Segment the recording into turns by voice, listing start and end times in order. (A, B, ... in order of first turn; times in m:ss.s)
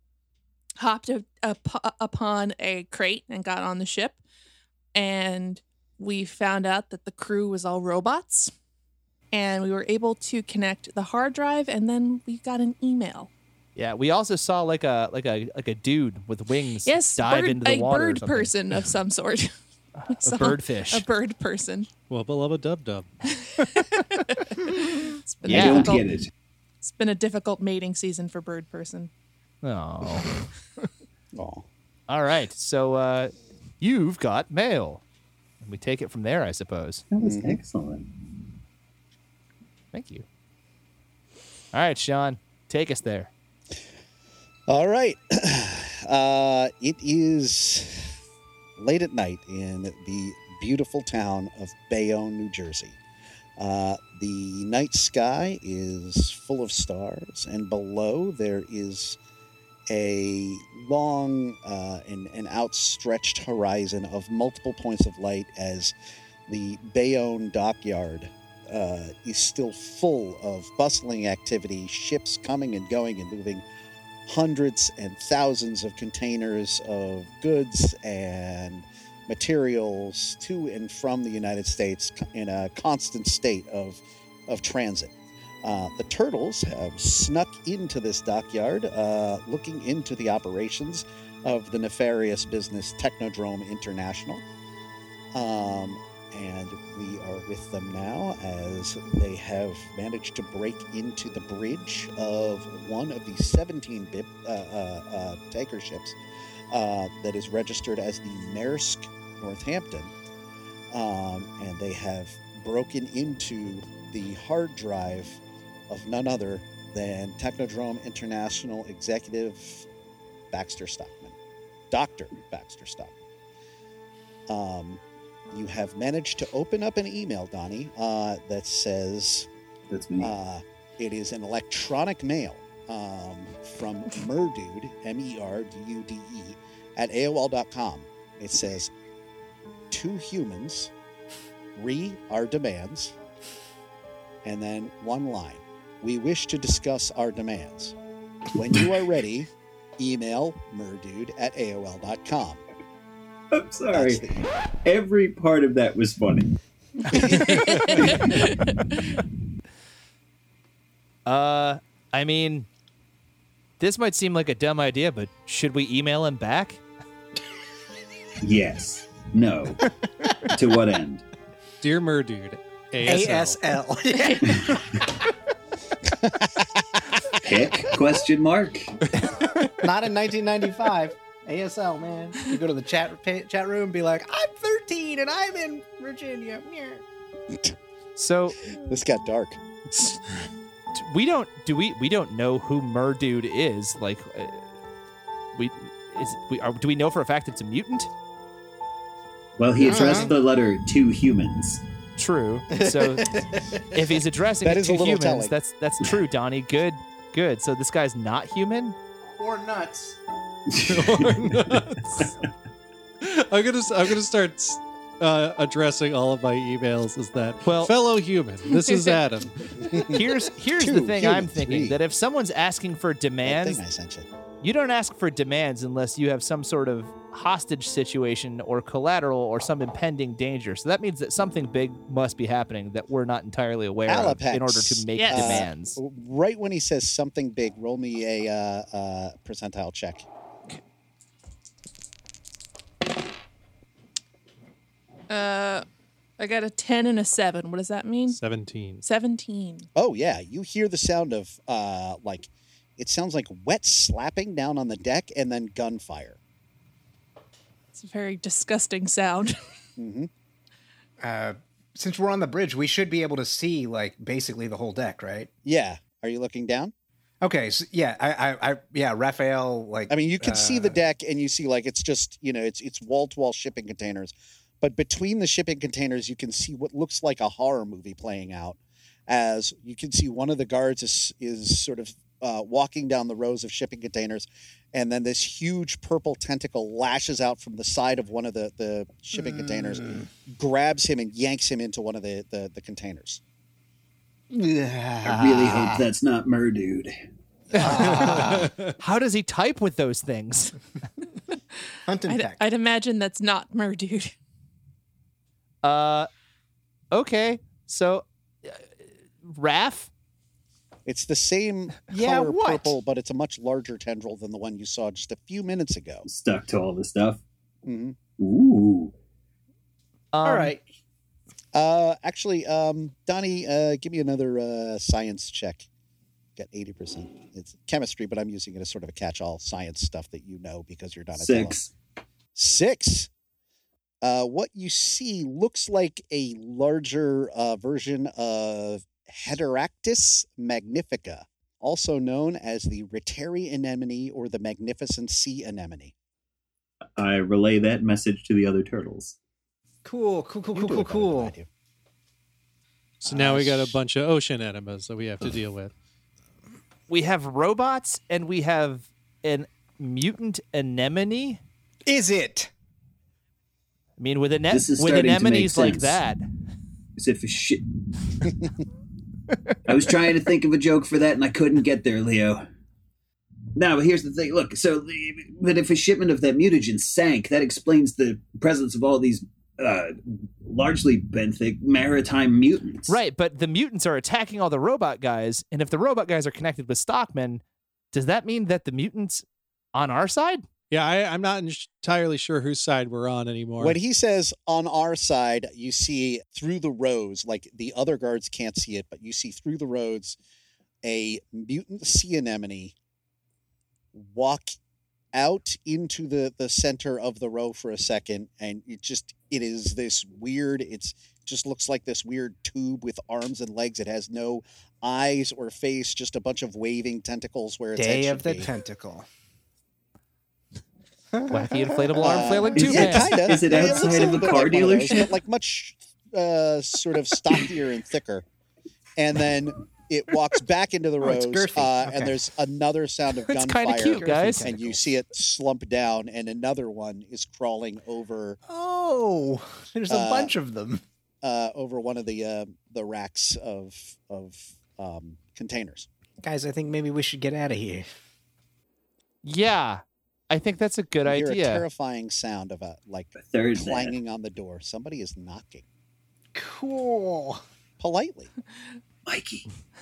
0:00.8-0:04.2 A
0:04.9-0:08.5 A
0:09.3-0:13.3 A
0:13.8-0:18.5 B
0:16.8-0:19.5 A
0:20.0-0:21.0 B
0:20.1-0:21.9 A
0:22.1-0:23.1 C
0:23.5-0:26.1 A
0:25.4-0:26.3 D
0:25.5-0:26.0 B
0:26.8-0:29.1 A
0:29.6-0:30.3 B
0:31.3-0:31.7 E
0:32.1-0:35.0 B
0:35.6-0:37.0 B
0:37.1-0:38.1 D
0:37.2-0:37.6 E
0:39.9-0:40.2 B
0:41.7-0:43.3 B
0:44.7-0:48.1 E
0:48.8-0:53.0 E
0:53.6-0:59.2 E
0:59.9-1:05.9 E
1:06.5-1:13.6 E
1:14.2-1:34.4 E
1:35.3-1:46.2 E
1:46.7-1:50.1 E
1:50.9-1:59.9 E
2:00.5-2:01.4 E
2:01.9-2:03.1 E
2:04.5-2:09.5 E
2:09.9-2:10.3 D
2:10.2-2:18.9 E
2:19.9-2:20.9 E
2:21.7-2:23.1 E
2:24.4-2:27.9 E
2:28.5-2:32.6 E
2:33.5-2:34.3 D
2:33.9-2:34.5 E
2:34.8-2:36.6 D
2:37.1-2:38.5 D
2:37.2-2:39.0 A
2:41.2-2:42.7 B
2:43.8-2:46.8 B
2:48.4-2:49.9 D
2:50.5-2:51.2 D
2:51.8-2:53.6 C
2:53.0-2:55.3 F
2:54.2-2:54.5 A
2:56.2-2:57.0 E
2:57.4-2:59.0 D
2:59.1-2:59.7 C
2:59.8-3:07.0 F
3:08.2-3:08.6 B
3:08.7-3:09.6 E
3:10.9-3:14.6 B
3:15.5-3:18.1 B
3:19.6-3:21.8 D
3:19.8-3:20.3 F
3:22.2-3:29.0 B
3:22.8-3:23.9 F
3:24.6-3:25.5 E
3:29.3-3:30.2 F
3:30.7-3:31.4 D
3:30.8-3:32.3 C
3:33.2-3:40.1 C
3:37.6-3:37.9 B
3:38.7-3:39.2 A
3:39.8-3:40.2 E
3:40.0-3:43.8 B
3:40.7-3:42.0 E
3:43.4-3:44.3 E
3:44.6-3:56.0 B
3:54.1-4:00.2 E
3:55.1-3:55.7 A
4:05.3-4:05.8 A
4:06.4-4:08.4 A
4:08.3-4:09.0 C
4:09.0-4:09.9 A
4:09.9-4:16.4 E
4:17.9-4:19.6 A
4:20.0-4:20.3 E
4:21.2-4:25.5 F
4:25.6-4:26.9 E
4:27.4-4:30.9 F
4:30.1-4:53.4 E
4:49.4-4:50.3 F
4:54.5-4:56.1 F
4:55.2-4:57.1 D
4:57.8-4:58.7 F
4:57.8-5:00.7 B
4:58.0-4:58.9 C
5:02.0-5:02.6 F
5:02.3-5:04.3 A
5:05.8-5:06.3 B
5:07.1-5:08.9 B
5:09.4-5:10.1 B
5:11.0-5:16.2 E
5:12.1-5:12.9 F
5:16.2-5:17.4 D
5:17.8-5:18.2 E
5:18.4-5:19.1 D
5:20.3-5:20.7 B
5:20.4-5:20.8 F
5:21.7-5:25.9 E
5:26.6-5:31.8 E
5:31.4-5:31.9 D
5:32.5-5:33.3 E
5:34.2-5:46.1 E
5:47.2-5:49.3 D
5:50.0-5:51.5 F
5:50.7-5:51.7 E
5:53.2-5:55.9 C
5:53.3-5:53.8 E
5:53.7-5:53.9 F
5:57.1-6:01.6 B
6:02.1-6:02.7 F
6:04.2-6:06.4 B
6:04.7-6:06.2 D
6:07.2-6:07.8 D
6:09.8-6:12.6 D
6:13.7-6:23.2 D
6:23.1-6:30.6 B
6:30.9-6:34.0 C
6:33.8-6:40.4 E
6:41.0-6:42.9 E
6:44.1-6:44.8 E
6:45.3-6:58.7 E
6:58.0-6:59.2 F
7:01.3-7:03.1 F
7:01.5-7:03.5 B
7:02.2-7:08.4 E
7:02.8-7:05.3 D
7:09.2-7:18.6 E
7:11.2-7:12.3 F
7:13.5-7:14.7 B
7:13.9-7:15.0 F
7:18.7-7:21.0 F
7:20.1-7:20.5 E
7:21.4-7:26.1 E
7:26.4-7:28.0 F
7:29.4-7:31.8 B
7:31.2-7:35.8 E
7:33.4-7:34.1 D
7:36.5-7:37.6 F
7:38.0-7:38.5 E
7:39.2-7:39.7 D